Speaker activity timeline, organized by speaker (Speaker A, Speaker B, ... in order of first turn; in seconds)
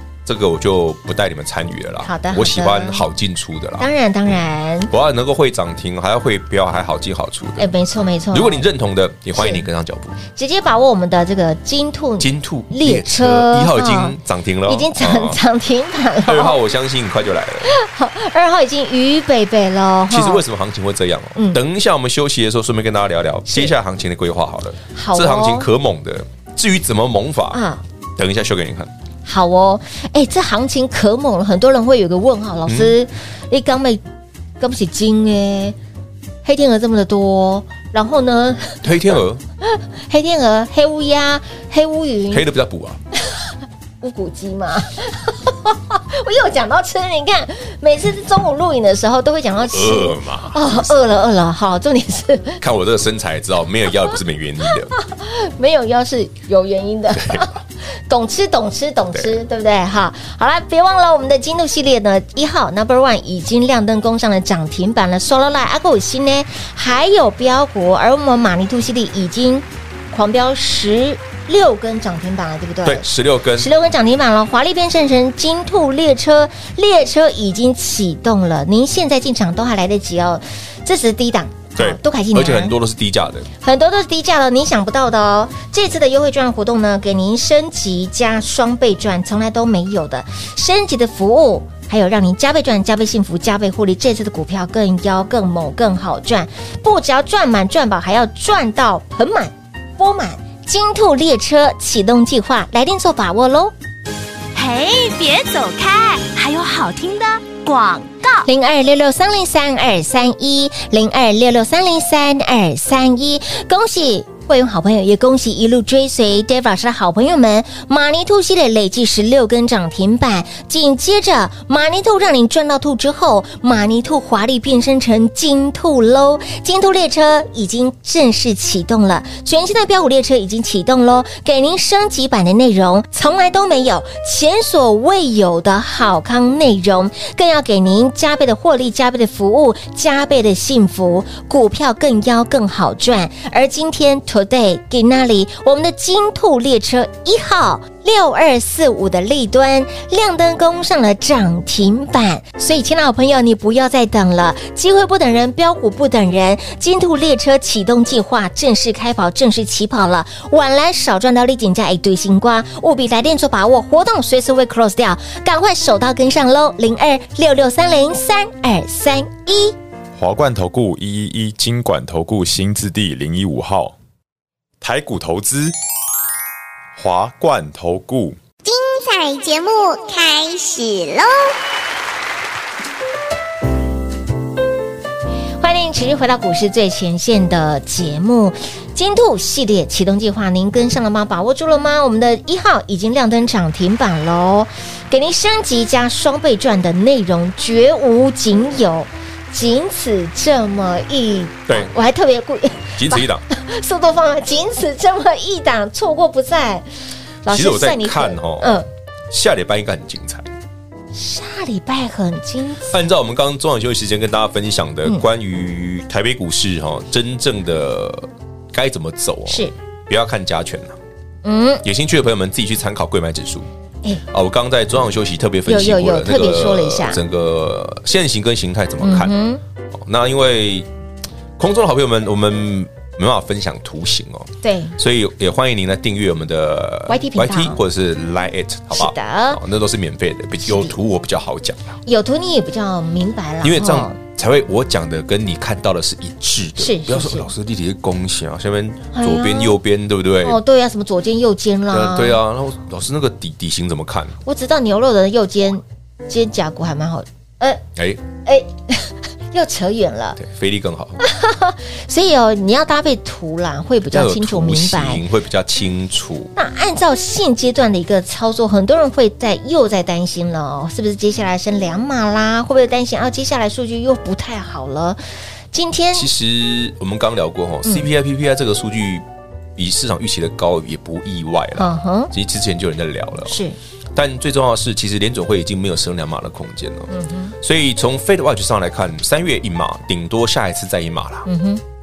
Speaker A: 0.2-3.9, 4.9-7.7, 8.3-10.2, 12.2-15.4, 16.2-17.7, 20.1-27.6, 28.1-28.9, 32.7-33.0, 38.8-39.4, 42.3-43.0, 49.6-50.9, 52.6-54.9, 57.1-57.5, 72.8-73.7, 81.8-83.5, 202.9-203.4, 207.5-208.8, 209.3-210.5, 212.9-221.0, 221.8-223.7, 224.3-229.4, 229.9-230.9, 231.6-242.0, 243.6-250.6, 251.9-254.3, 257.9-258.2, 260.4-261.2, 264.1-266.5, 276.1-279.2, 279.8-283.6, 284.1-291.5
Speaker B: 2.0-3.0, 3.8-4.9, 7.6-8.6, 9.3-9.6, 10.3-16.6, 17.6-20.4, 21.4-21.6, 23.5-23.7, 24.9-25.7, 27.5-27.8, 29.2-34.0, 34.6-35.8, 36.4-38.9, 39.6-42.5, 44.0-52.6, 54.9-82.8, 83.6-103.7, 108.4-169.8, 185.6-206.8, 207.4-208.9, 211.1-213.0, 219.5-219.7, 221.4-221.8, 225.7-227.2, 229.0-229.6, 234.6-234.9, 237.1-237.8, 238.9-239.6, 240.6-240.9, 242.1-244.2, 246.8-247.5, 249.1-249.8, 250.4-252.4, 254.4-257.8, 258.4-260.4, 261.2-265.2, 266.5-275.2, 275.7-276.3, 281.8-282.3, 283.4-283.8, 287.1-287.5, 291.4-291.8
Speaker C: 104.5-108.5
Speaker D: 170.2-173.9, 174.8-175.7, 176.9-178.4
Speaker E: 178.6-181.5